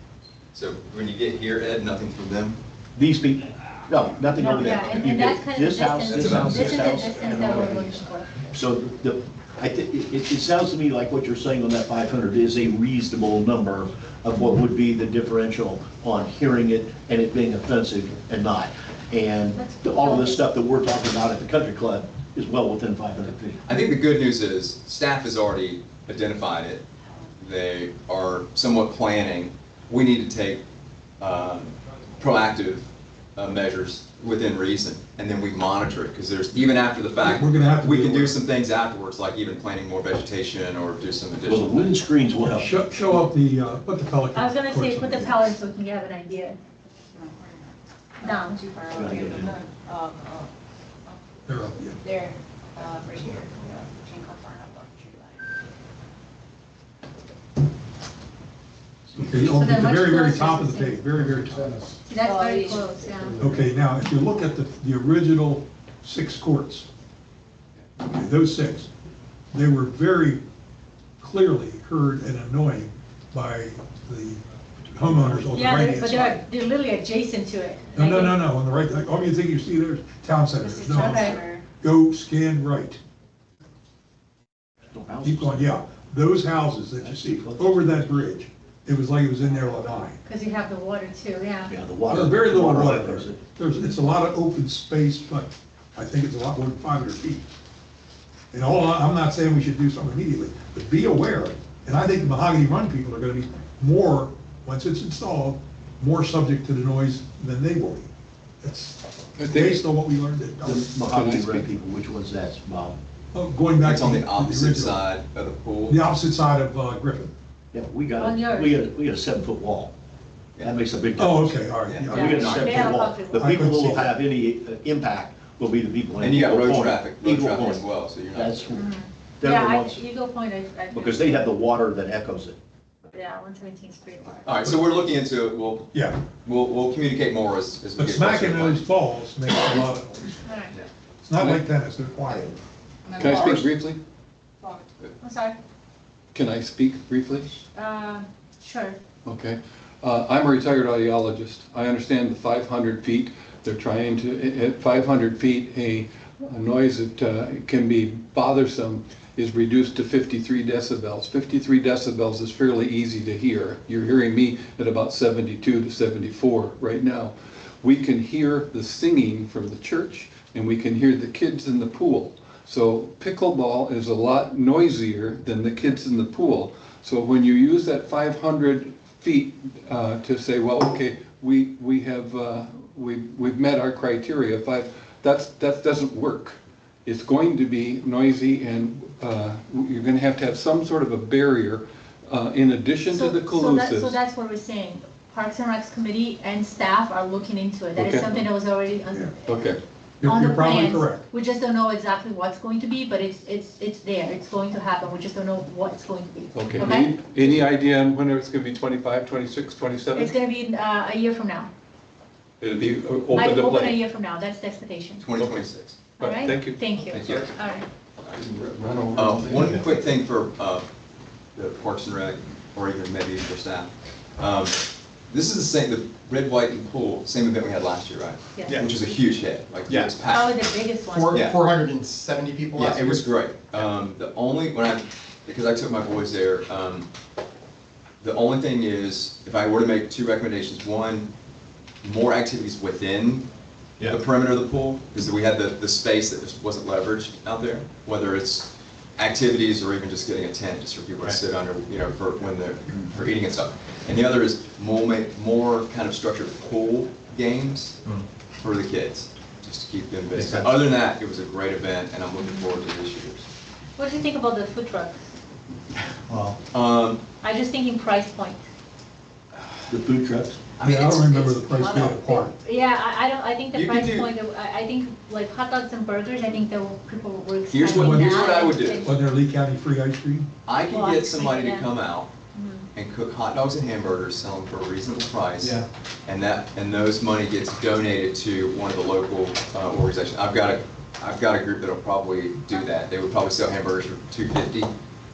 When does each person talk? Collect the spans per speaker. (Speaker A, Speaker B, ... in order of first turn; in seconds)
Speaker A: 0.5-2.6, 4.6-5.2, 6.0-7.1, 23.6-26.9, 27.4-30.7, 31.2-42.0, 113.8-116.0, 121.9-122.9, 126.2-128.8, 134.5-138.8, 215.2-216.2, 217.1-217.5, 219.1-220.9, 221.6-230.7, 231.3-231.6, 232.7-237.1, 238.2-241.3, 242.0-243.5, 244.0-258.0, 258.6-263.5, 266.7-267.2, 270.8-271.4, 273.7-274.3, 277.7-279.2, 280.7-282.3, 282.9-294.9
Speaker B: 3.0-7.9, 8.5-23.7, 41.4-42.8, 48.9-49.6, 84.9-85.8, 87.0-87.6, 91.7-93.4, 110.6-113.0, 117.7-119.9, 120.6-128.8, 129.4-130.0, 130.9-132.6, 269.9-270.6
Speaker C: 4.3-8.3, 19.5-20.4, 44.3-46.6, 48.2-48.6, 59.4-61.0, 62.0-63.4, 75.5-78.4, 80.9-81.4, 90.2-91.7, 118.2-118.8, 122.1-123.6, 128.7-131.5, 133.1-134.5, 140.4-140.8, 145.2-145.6, 147.7-149.0, 193.1-199.6, 200.2-207.6, 210.2-211.7, 213.3-215.2, 216.2-217.9, 228.6-228.9, 230.3-231.6, 262.4-262.7, 264.0-265.3, 267.4-268.6, 270.8-279.2, 280.9-281.9, 282.5-282.9
Speaker D: 37.2-38.4, 42.4-45.4, 51.5-52.0, 59.1-61.9, 63.4-66.9, 68.0-68.9, 69.5-70.4, 71.2-76.4, 78.0-83.0, 85.2-90.2, 92.1-97.5, 98.5-108.1, 108.6-111.0, 113.3-115.0, 115.9-117.3, 121.2-122.5, 123.4-124.1, 135.9-136.2, 138.0-140.4, 141.2-142.6, 200.2-201.2, 270.8-272.5, 277.9-280.5
Speaker E: 47.1-50.5, 51.1-51.4, 52.0-55.5, 62.2-63.3, 80.6-81.6, 143.1-143.7
Speaker F: 109.4-109.8, 111.0-111.8, 141.4-141.6, 143.1-144.0, 146.3-147.5, 149.2-194.2, 198.0-198.3, 199.4-199.8, 206.6-210.4, 212.6-214.0, 215.4-215.7, 216.2-217.4, 218.3-219.9
Speaker G: 231.1-233.3, 260.3-260.8, 266.3-266.6